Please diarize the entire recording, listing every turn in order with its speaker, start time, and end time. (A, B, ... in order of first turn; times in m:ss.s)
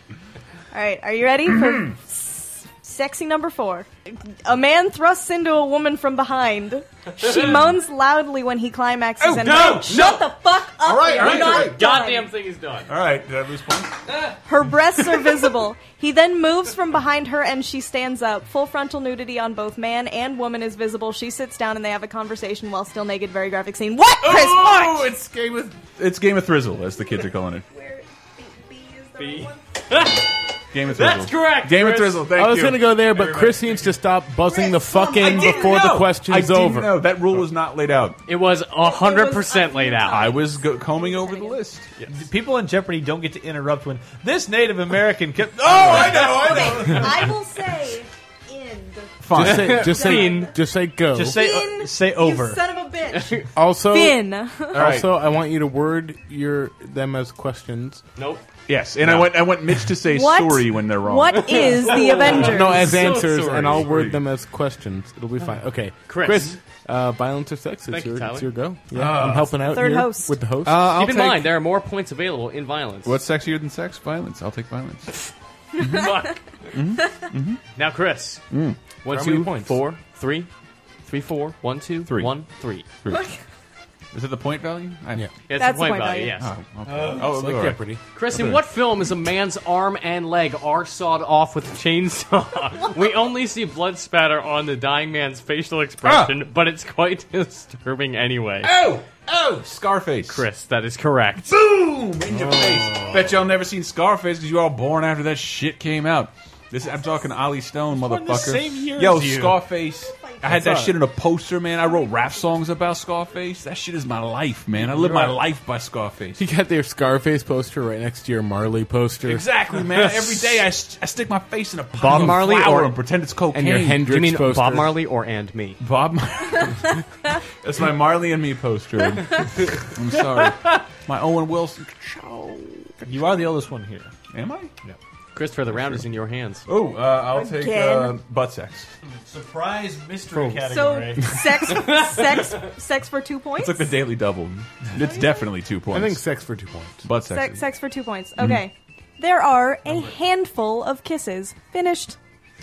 0:00.7-0:12.3 A
0:01.5-0:01.9 B
0:07.2-0:07.6 C
0:09.2-0:10.0 B
0:09.4-0:10.3 C
0:10.8-0:11.9 B
0:11.1-0:12.9 C
0:12.9-0:14.3 B
0:14.4-0:25.1 A
0:24.2-0:27.7 B
0:27.2-0:29.6 A
0:29.2-0:30.3 C
0:30.7-0:33.6 B
0:30.8-0:32.3 C
0:32.3-0:37.1 D
0:33.6-0:33.8 E
0:34.5-0:35.8 A
0:35.2-0:38.2 B
0:38.3-0:40.3 C
0:38.8-0:41.6 A
0:40.1-0:41.9 B
0:42.0-0:42.2 C
0:42.1-0:47.3 E
0:45.6-0:47.3 B
0:45.8-0:50.6 A
0:49.2-0:50.1 B
0:49.3-0:51.4 D
0:49.4-0:50.5 C
0:51.1-0:52.6 E
0:51.2-0:54.9 A
0:53.1-0:53.5 C
0:53.6-0:58.0 D
0:54.7-0:55.1 B
0:58.2-0:58.5 C
0:58.7-1:01.9 B
1:00.0-1:02.9 A
1:01.5-1:04.0 C
1:02.2-1:10.9 D
1:02.8-1:04.2 B
1:06.1-1:06.6 C
1:07.9-1:08.5 C
1:08.9-1:09.6 B
1:09.6-1:10.4 A
1:10.6-1:11.6 B
1:10.9-1:13.2 C
1:13.0-1:17.6 B
1:15.8-1:16.3 A
1:15.8-1:16.4 C
1:17.8-1:18.4 C
1:18.5-1:18.8 B
1:19.0-1:20.5 C
1:19.1-1:19.8 D
1:21.0-1:22.9 C
1:22.1-1:22.4 B
1:23.0-1:23.3 B
1:23.1-1:23.4 A
1:24.1-1:25.3 B
1:25.5-1:26.5 C
1:25.6-1:26.4 A
1:26.4-1:28.6 B
1:26.9-1:27.3 E
1:26.9-1:28.0 D
1:28.1-1:38.7 C
1:36.0-1:36.4 B
1:38.6-1:40.4 B
1:40.3-1:41.5 C
1:41.5-1:56.4 B
1:42.3-1:43.4 D
1:47.9-1:49.6 E
1:49.8-1:50.6 A
1:50.5-1:50.9 D
1:51.8-1:52.5 A
1:54.9-1:55.4 E
1:56.4-1:59.5 D
1:59.2-2:04.1 B
2:00.0-2:00.4 C
2:02.0-2:03.0 C
2:03.5-2:05.0 D
2:04.0-2:05.8 C
2:05.8-2:13.5 B
2:13.0-2:14.1 E
2:14.3-2:14.7 B
2:15.4-2:16.6 C
2:16.7-2:18.9 B
2:17.3-2:18.2 A
2:19.2-2:21.4 E
2:20.7-2:23.9 A
2:21.7-2:22.6 C
2:23.6-2:26.2 B
2:25.0-2:25.4 A
2:25.9-2:27.1 D
2:27.0-2:27.6 B
2:27.3-2:32.2 A